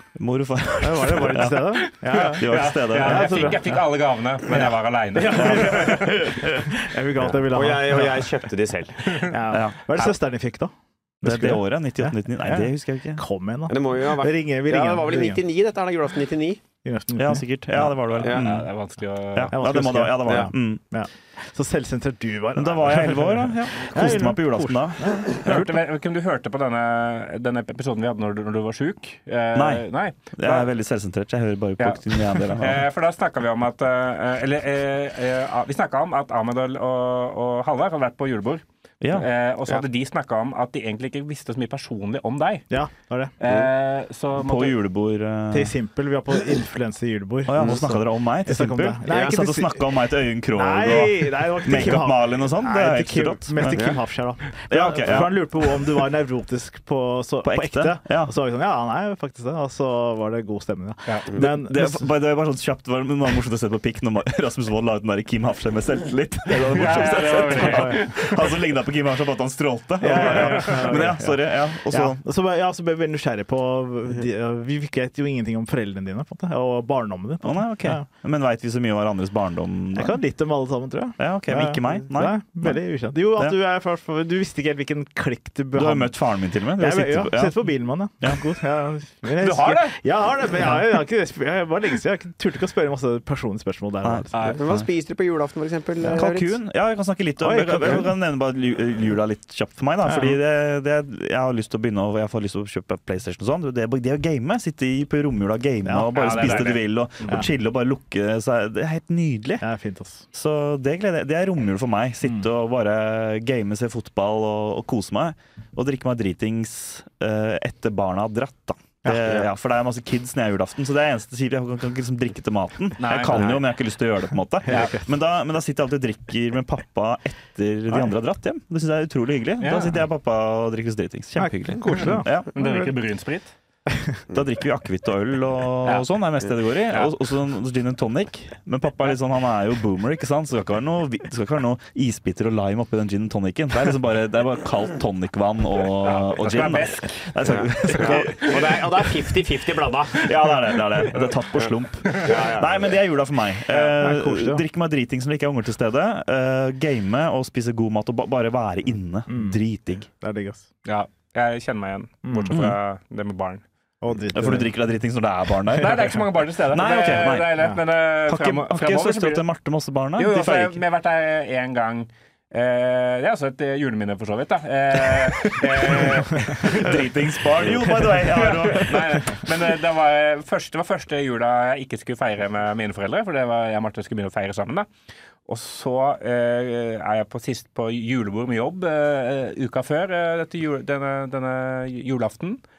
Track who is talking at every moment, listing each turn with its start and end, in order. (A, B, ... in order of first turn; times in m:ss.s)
0:00.2-0:03.8 A
0:00.8-0:03.7 B
0:02.1-0:06.5 C
0:04.5-0:08.4 B
0:05.3-0:06.0 A
0:07.2-0:09.4 D
0:09.2-0:15.4 B
0:09.5-0:09.8 A
0:11.2-0:13.2 A
0:13.7-0:16.6 D
0:16.8-0:18.0 B
0:17.1-0:18.7 A
0:18.1-0:19.6 C
0:18.2-0:18.5 D
0:19.3-0:20.8 A
0:19.5-0:25.4 B
0:20.2-0:20.5 D
0:22.6-0:25.8 A
0:25.4-0:30.7 C
0:29.5-0:32.8 A
0:31.8-0:42.6 C
0:39.0-0:39.3 A
0:42.7-0:43.3 B
0:43.4-0:44.8 C
0:44.4-0:45.7 A
0:45.5-0:49.8 B
0:47.4-0:54.0 A
0:47.6-0:47.8 D
0:50.5-1:02.1 B
0:53.7-0:54.0 D
0:54.7-0:55.8 A
0:57.4-0:58.3 A
1:01.3-1:12.2 A
1:06.6-1:08.5 C
1:07.6-1:08.0 B
1:10.0-1:18.0 B
1:10.2-1:10.8 C
1:17.4-1:20.2 A
1:19.9-1:26.2 B
1:21.2-1:22.8 A
1:25.7-1:27.7 A
1:26.8-1:34.6 B
1:29.4-1:30.0 C
1:34.0-1:34.9 A
1:34.3-1:34.6 C
1:34.5-1:36.5 D
1:36.1-1:49.6 A
1:37.4-1:38.1 B
1:40.0-1:40.4 B
1:45.8-1:47.5 B
1:46.1-1:47.4 C
1:49.6-1:50.2 B
1:50.3-2:12.5 A
1:59.0-1:59.4 B
2:03.0-2:03.6 C
2:03.3-2:03.6 D
2:04.7-2:05.0 B
2:09.6-2:10.0 C
2:11.4-2:12.9 B
2:12.5-2:13.5 C
2:14.3-2:28.7 A
2:16.9-2:17.1 C
2:26.0-2:28.9 C
2:27.4-2:30.3 D
2:30.2-2:40.1 A
2:31.6-2:33.0 D
2:32.0-2:32.4 C
2:33.9-2:34.6 B
2:39.3-2:39.6 B
2:40.2-2:40.6 B
2:40.8-2:43.6 C
2:42.2-2:42.6 B
2:42.5-2:42.8 A
2:44.0-2:44.7 B
2:44.3-2:47.7 A
2:45.8-2:49.4 C
2:48.3-2:50.8 A
2:50.2-2:57.0 C
2:56.6-2:59.4 A
2:58.1-3:04.9 C
3:05.4-3:12.6 C